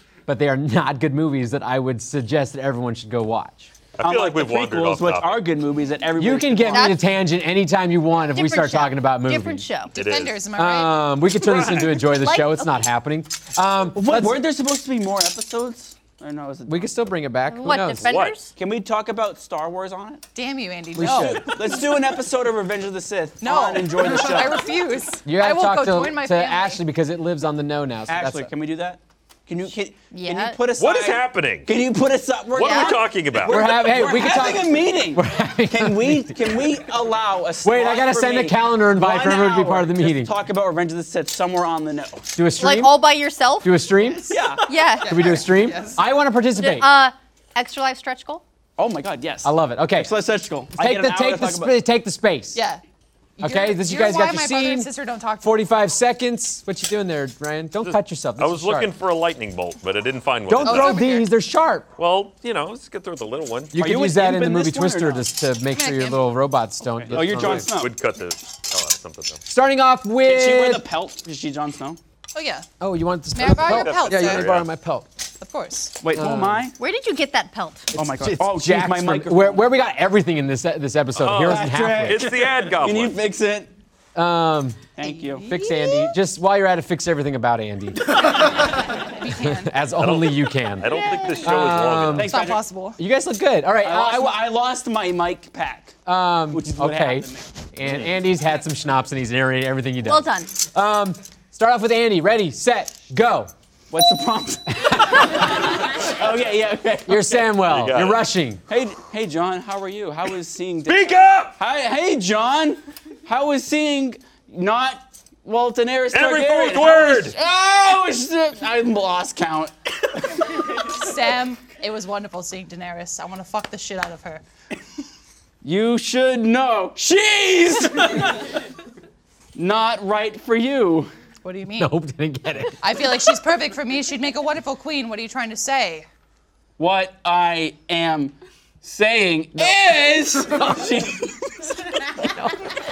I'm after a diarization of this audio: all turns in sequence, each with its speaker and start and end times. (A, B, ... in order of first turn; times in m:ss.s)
0:00.3-0:03.7 A
0:04.0-0:05.5 B
0:04.0-0:07.0 C
0:06.2-0:09.7 A
0:06.7-0:07.0 D
0:08.2-0:09.9 D
0:09.9-0:10.4 B
0:09.9-0:11.0 E
0:10.5-0:14.4 A
0:11.4-0:11.9 B
0:11.9-0:12.7 D
0:13.9-0:17.1 C
0:16.6-0:18.2 A
0:17.5-0:18.5 D
0:18.0-0:18.4 B
0:18.5-0:20.2 C
0:20.3-0:21.6 E
0:20.9-0:21.5 A
0:21.0-0:24.6 C
0:23.4-0:26.8 E
0:25.2-0:28.5 A
0:28.1-0:42.3 C
0:30.1-0:30.6 D
0:30.7-0:31.7 B
0:32.5-0:33.6 B
0:32.6-0:33.0 D
0:33.4-0:36.7 A
0:37.6-0:40.3 A
0:42.3-0:43.1 A
0:42.6-0:43.8 D
0:43.6-0:44.4 A
0:44.2-0:44.7 C
0:44.6-0:45.4 D
0:45.0-0:46.0 E
0:45.0-0:46.9 A
0:46.6-0:48.4 D
0:48.8-0:51.7 C
0:49.4-0:50.1 A
0:50.7-0:52.6 A
0:52.5-0:52.8 E
0:53.4-0:55.7 E
0:53.4-0:54.9 A
0:55.4-0:58.9 A
0:57.8-1:01.1 B
1:00.5-1:01.9 A
1:00.6-1:01.3 E
1:02.0-1:03.7 B
1:03.7-1:07.7 A
1:03.7-1:05.2 C
1:05.7-1:06.3 E
1:06.8-1:07.9 C
1:07.1-1:09.4 B
1:09.5-1:10.8 A
1:10.2-1:12.0 C
1:12.3-1:12.7 E
1:12.8-1:15.1 A
1:13.3-1:14.6 E
1:13.4-1:14.7 B
1:15.4-1:16.0 E
1:16.0-1:16.8 C
1:16.1-1:16.7 A
1:16.8-1:17.9 D
1:17.9-1:19.6 C
1:17.9-1:22.3 A
1:21.2-1:23.2 B
1:21.4-1:23.7 C
1:24.1-1:28.5 A
1:25.0-1:25.5 C
1:25.3-1:26.1 D
1:28.4-1:29.9 E
1:29.4-1:32.3 A
1:30.0-1:32.3 B
1:32.1-1:32.6 C
1:32.3-1:33.0 E
1:33.0-1:34.4 A
1:33.8-1:36.0 C
1:36.0-1:43.5 A
1:36.5-1:37.5 C
1:40.0-1:40.5 D
1:43.9-1:47.6 C
1:44.7-1:45.5 A
1:47.1-1:48.6 A
1:47.6-1:48.2 B
1:48.7-2:00.4 C
1:50.8-1:51.6 B
1:56.1-1:57.4 B
2:00.8-2:04.4 E
2:05.6-2:08.5 C
2:09.5-2:11.1 C
2:11.4-2:11.9 E
2:11.8-2:12.8 A
2:12.8-2:16.1 E
2:16.8-2:21.7 C
2:19.6-2:20.7 A
2:22.2-2:22.6 A